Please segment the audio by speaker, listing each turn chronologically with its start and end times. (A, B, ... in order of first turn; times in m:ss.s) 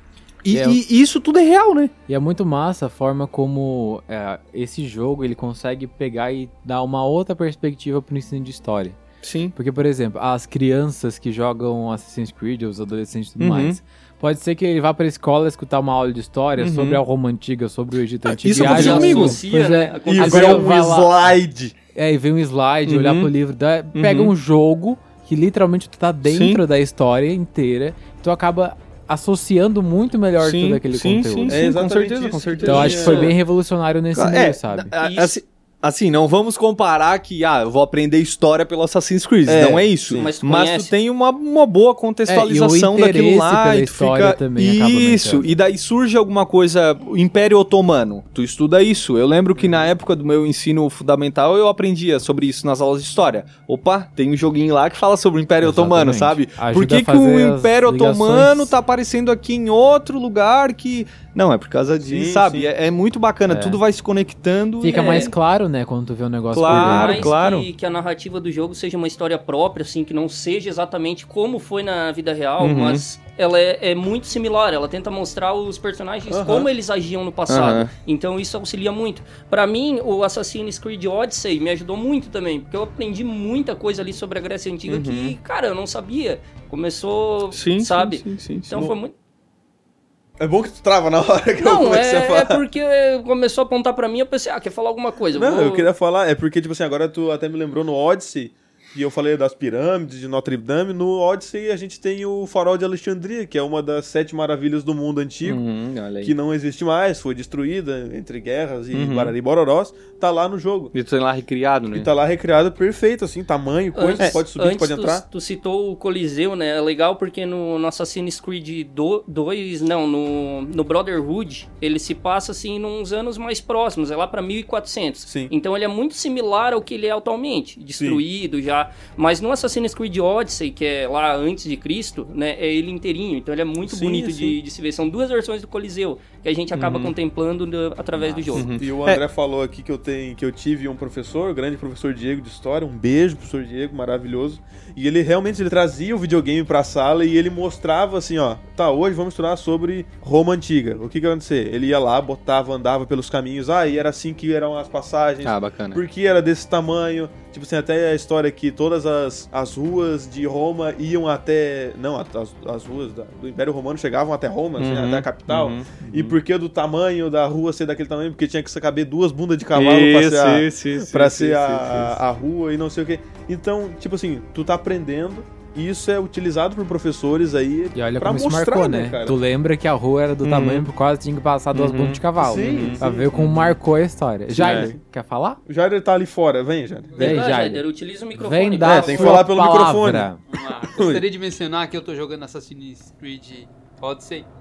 0:00.4-0:01.9 A
0:00.5-0:00.8 B
0:02.1-0:09.0 B
0:09.2-0:09.6 A
0:09.5-0:21.3 B
0:13.4-0:13.8 A
0:16.6-0:17.0 A
0:18.3-0:19.4 A
0:18.6-0:20.8 C
0:18.7-0:19.1 D
0:20.1-0:21.7 D
0:22.0-0:31.6 B
0:22.9-0:23.3 A
0:23.9-0:24.3 A
0:26.3-0:26.6 A
0:30.4-0:33.4 A
0:31.5-0:33.4 D
0:32.6-0:34.9 B
0:34.2-1:05.3 A
0:35.0-0:35.4 C
0:39.5-0:40.3 D
0:40.2-0:40.9 C
0:42.3-0:45.6 B
0:49.6-0:49.9 D
0:55.6-0:58.7 B
1:02.0-1:02.7 D
1:03.5-1:03.8 B
1:04.8-1:07.3 B
1:04.9-1:05.3 C
1:06.5-1:07.7 A
1:06.7-1:29.1 C
1:12.6-1:13.0 A
1:16.3-1:16.7 D
1:17.5-1:17.9 A
1:24.9-1:25.4 A
1:27.5-1:28.8 A
1:30.4-1:32.6 D
1:31.6-1:35.9 C
1:35.4-1:45.6 D
1:45.4-1:46.3 A
1:46.2-1:50.9 D
1:48.9-1:49.3 A
1:50.9-1:52.1 A
1:51.9-1:55.2 D
1:54.0-2:18.7 C
2:05.3-2:05.5 D
2:13.8-2:14.6 D
2:16.7-2:17.1 A
2:18.2-2:18.6 B
2:18.5-2:19.2 A
2:18.8-2:59.4 D
2:35.4-2:36.0 A
2:44.8-2:46.4 A
2:49.7-2:52.2 A
2:58.0-3:05.6 B
3:00.4-3:00.9 A
3:01.7-3:03.8 A
3:02.4-3:03.3 D
3:04.6-3:04.9 A
3:04.6-3:05.0 D
3:05.7-3:07.4 D
3:07.2-3:07.8 B
3:07.2-3:09.4 C
3:08.4-3:10.4 B
3:08.8-3:10.3 D
3:10.5-3:14.5 E
3:11.0-3:11.2 D